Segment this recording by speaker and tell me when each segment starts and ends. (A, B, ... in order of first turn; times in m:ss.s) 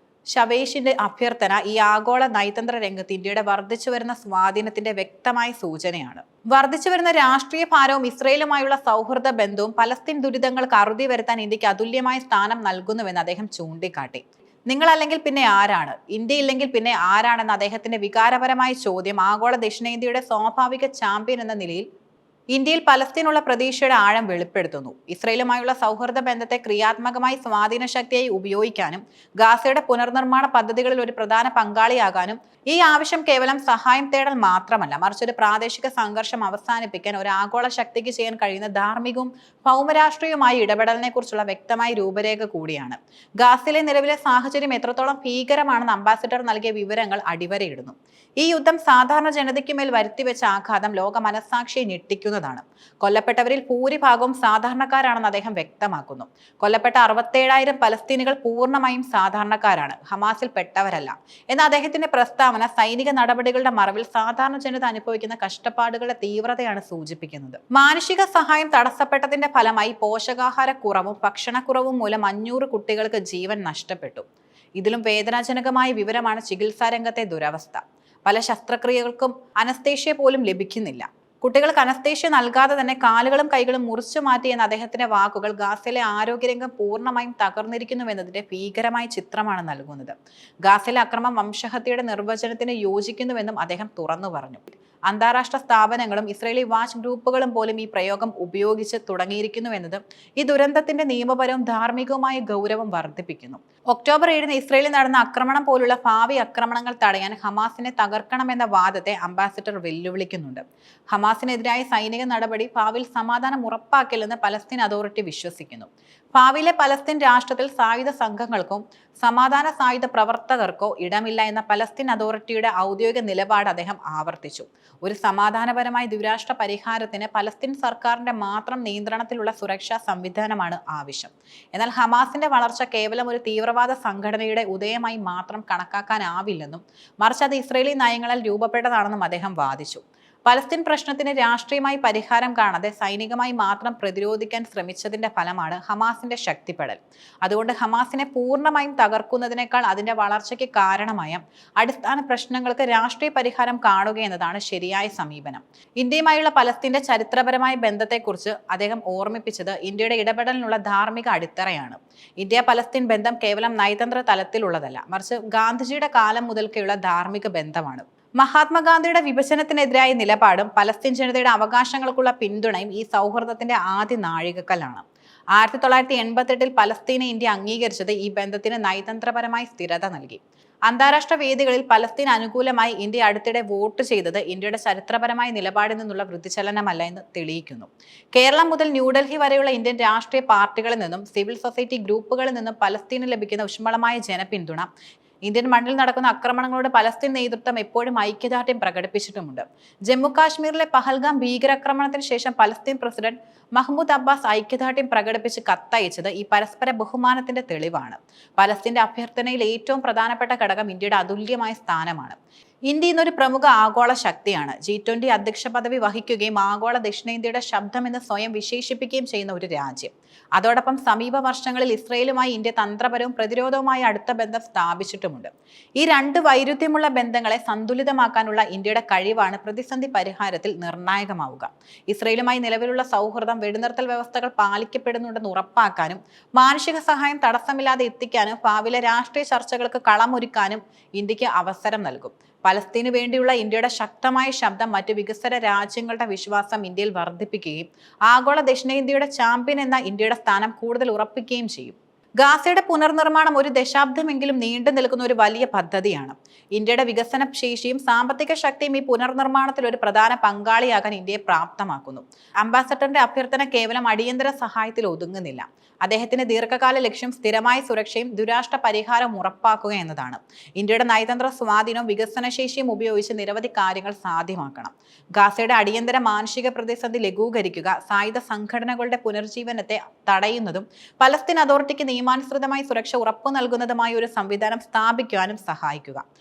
0:00.3-0:21.8 A
0:22.5-1:14.2 A
1:14.8-1:30.1 A
1:30.6-2:55.0 A
2:55.6-3:14.9 A
3:15.4-3:32.4 A
3:32.9-4:46.2 A